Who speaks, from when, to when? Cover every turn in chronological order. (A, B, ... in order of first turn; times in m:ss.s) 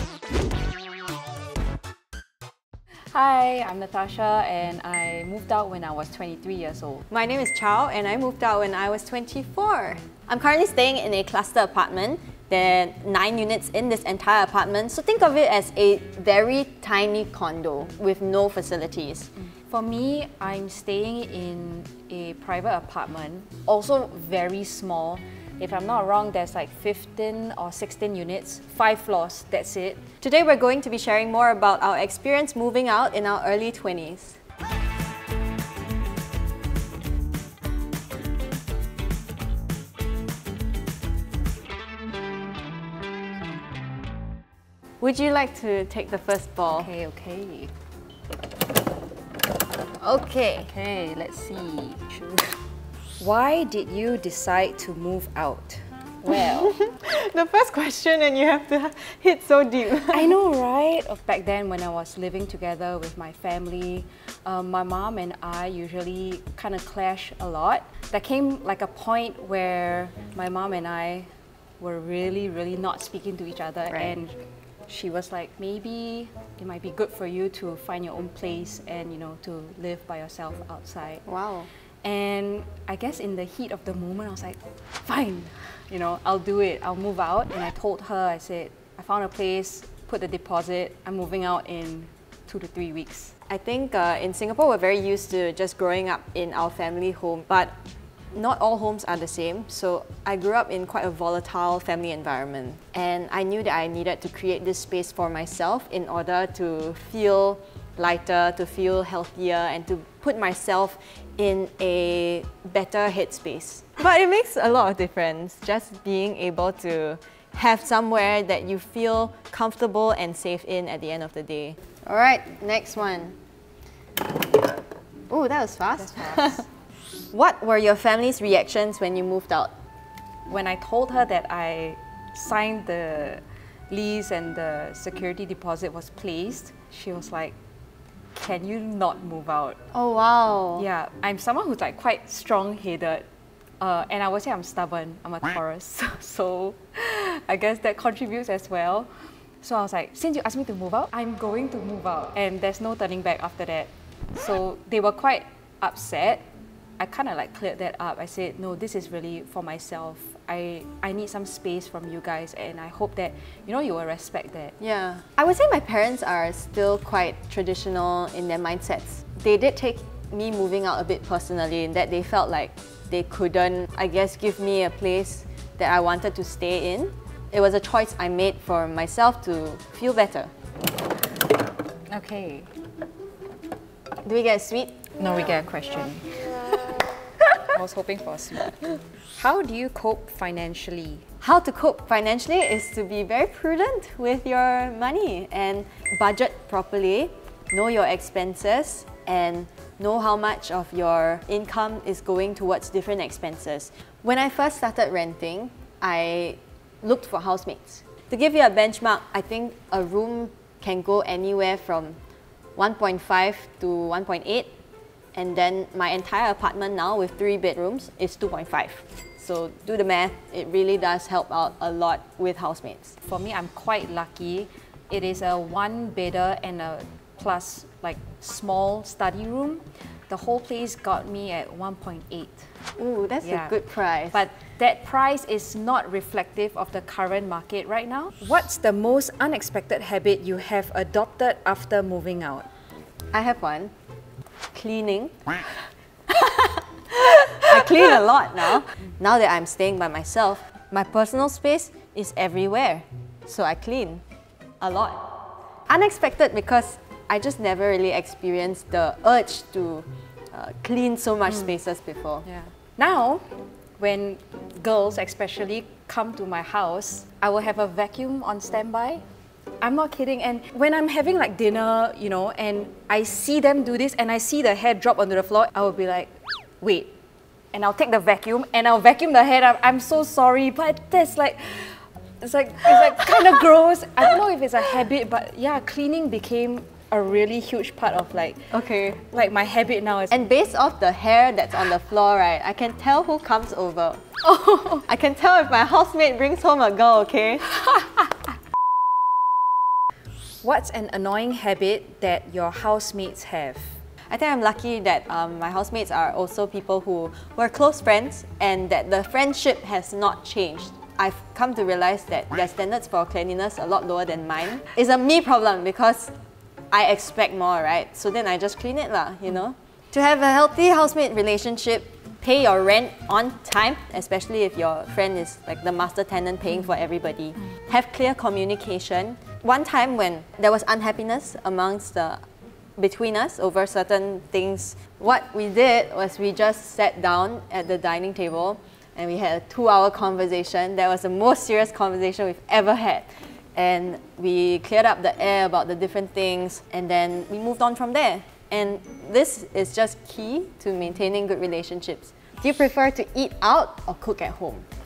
0:03.1-0:07.0 A
0:07.1-0:19.3 B
0:19.5-0:30.0 A
0:30.2-0:34.4 B
0:45.0-0:46.9 B
0:46.7-0:47.7 A
0:50.0-0:50.7 B
0:50.6-0:52.6 A
0:53.2-0:56.8 A
0:56.4-1:00.3 B
1:00.1-1:21.2 A
1:13.9-1:14.2 B
1:21.2-1:21.7 B
1:22.0-1:33.3 A
1:33.5-1:37.7 B
1:38.3-2:03.4 B
2:05.3-2:06.6 B
2:06.0-2:06.6 A
2:07.3-2:09.7 B
2:10.5-2:17.5 A
2:18.3-2:19.8 A
2:19.9-2:20.8 B
2:20.8-2:23.2 A
2:23.8-2:36.4 A
2:37.0-2:44.7 A
2:44.8-3:00.5 B
3:02.1-3:02.7 A
3:04.2-3:05.1 B
3:05.2-3:07.1 A
3:07.6-3:11.2 A
3:11.4-3:32.2 B
3:32.8-3:34.7 B
3:35.3-3:43.2 B
3:43.2-3:52.7 A
3:53.0-3:54.4 B
3:53.4-3:53.7 A
3:54.3-4:02.7 A
4:03.3-4:03.9 B
4:04.7-4:05.6 B
4:06.3-4:14.2 B
4:14.8-4:15.3 B
4:15.9-4:22.4 B
4:22.4-4:29.2 A
4:29.8-4:37.1 A
4:37.7-4:50.3 A
4:48.7-4:49.2 B
4:50.3-4:54.2 B
4:54.4-4:55.0 A
4:55.0-4:57.7 B
5:00.6-5:04.0 A
5:04.3-5:16.3 B
5:16.9-5:32.4 B
5:33.0-5:54.8 B